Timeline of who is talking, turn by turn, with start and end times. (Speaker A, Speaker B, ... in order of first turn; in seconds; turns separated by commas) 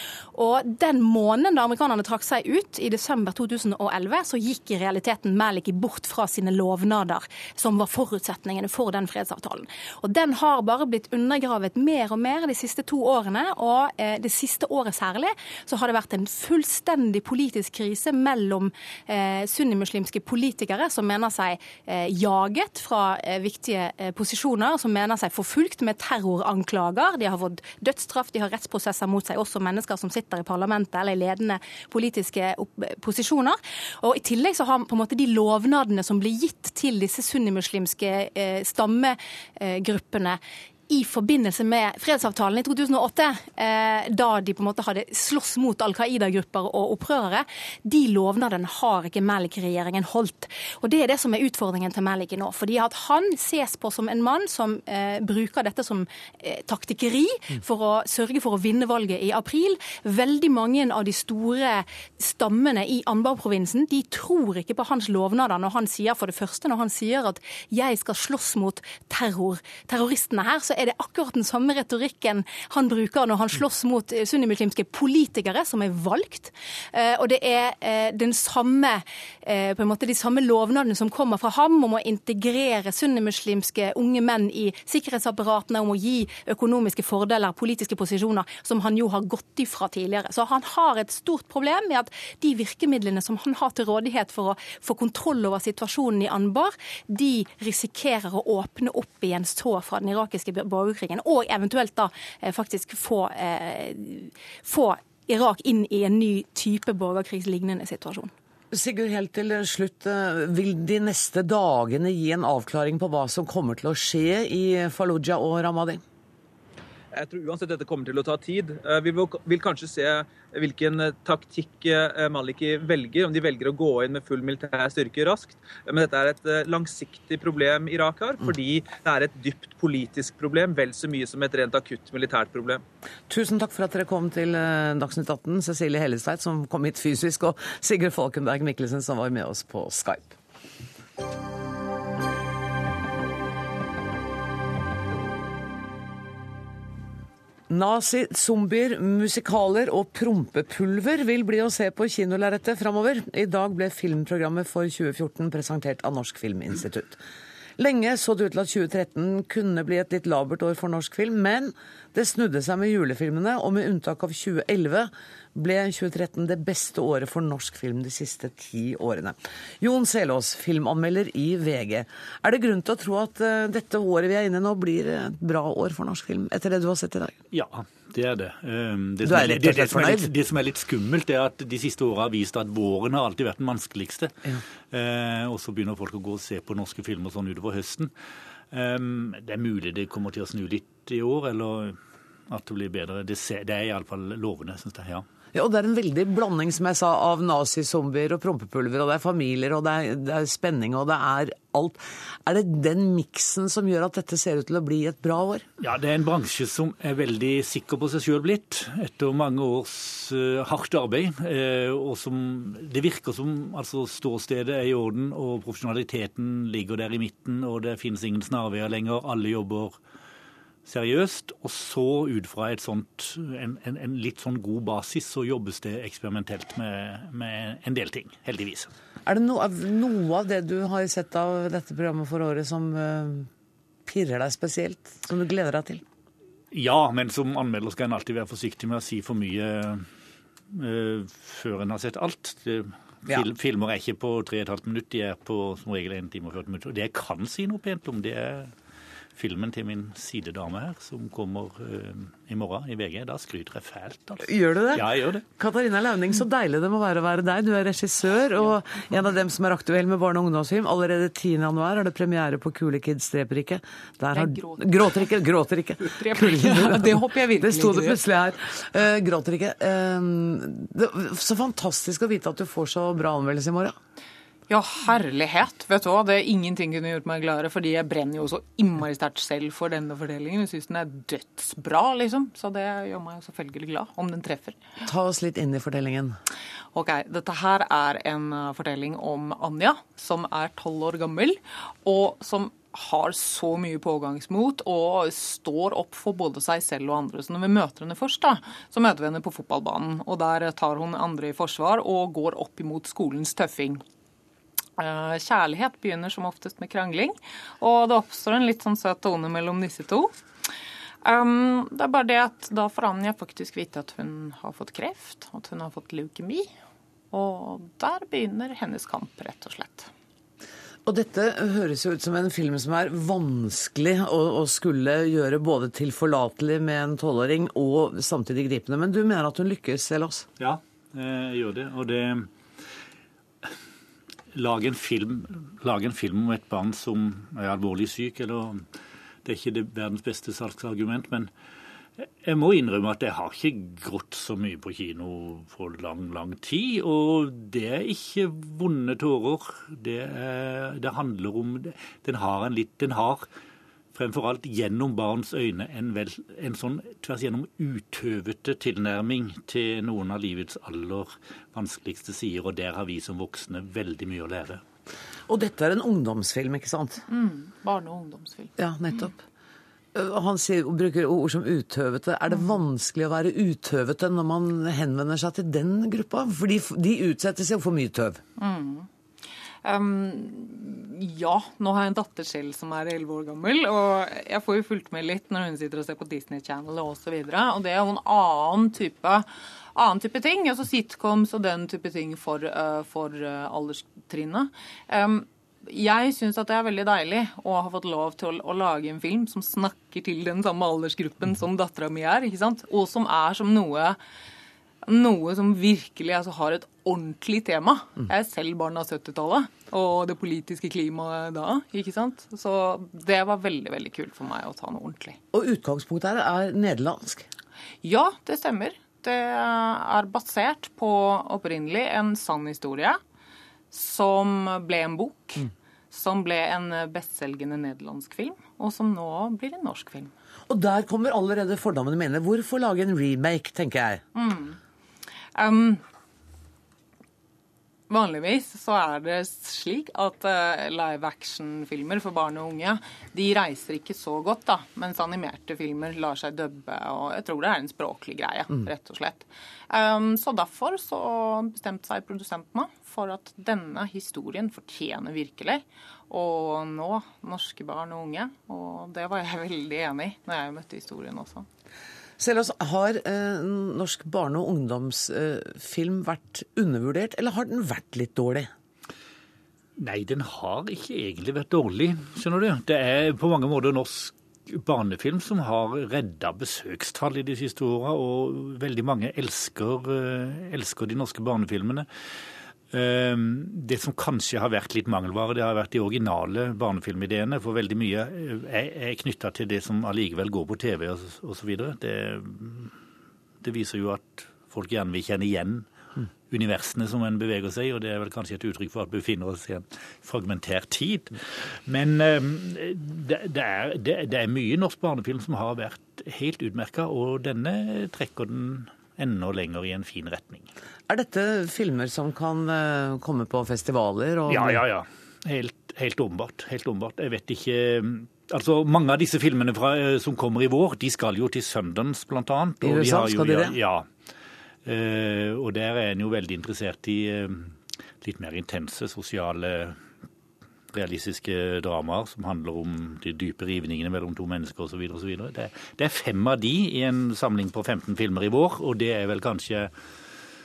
Speaker A: 0.3-108.3, Speaker B: 108.7-116.0, Speaker C: 117.1-132.8, Speaker B: 133.3-140.3, Speaker B: 147.7-157.2, Speaker B: 157.8-177.3, Speaker D: 177.5-188.1, Speaker B: 179.2-180.3, Speaker D: 188.7-191.9, Speaker D: 192.5-195.2, Speaker B: 195.5-205.6, Speaker D: 205.8-219.9, Speaker D: 220.8-228.9, Speaker B: 229.2-233.5, Speaker B: 234.1-236.0, Speaker D: 236.7-240.1, Speaker D: 240.7-248.7, Speaker D: 249.3-255.4, Speaker B: 254.4-273.9, Speaker E: 264.3-265.2, Speaker E: 266.0-268.2, Speaker E: 274.7-284.9, Speaker B: 285.1-286.4, Speaker E: 286.9-304.0, Speaker E: 305.0-310.3, Speaker E: 311.2-316.7, Speaker E: 317.3-320.1, Speaker B: 321.1-330.4, Speaker D: 330.6-332.5, Speaker D: 334.5-338.9, Speaker D: 339.4-341.5, Speaker D: 342.4-353.5, Speaker D: 354.1-364.8, Speaker B: 365.5-367.2, Speaker E: 367.3-369.3, Speaker B: 368.8-369.3, Speaker B: 370.1-378.4, Speaker E: 378.6-379.1, Speaker E: 379.8-404.2, Speaker E: 405.0-415.4, Speaker B: 415.5-417.4, Speaker E: 418.0-423.2, Speaker E: 423.9-430.3, Speaker B: 430.7-434.2, Speaker E: 434.3-434.8, Speaker E: 435.5-436.0, Speaker E: 438.1-461.7, Speaker B: 462.4-468.7, Speaker D: 470.0-482.1, Speaker D: 482.9-493.0, Speaker D: 493.6-495.9, Speaker D: 496.5-510.7, Speaker B: 511.1-514.8, Speaker D: 514.5-524.1, Speaker B: 522.8-523.8, Speaker D: 524.8-530.0, Speaker D: 530.9-539.9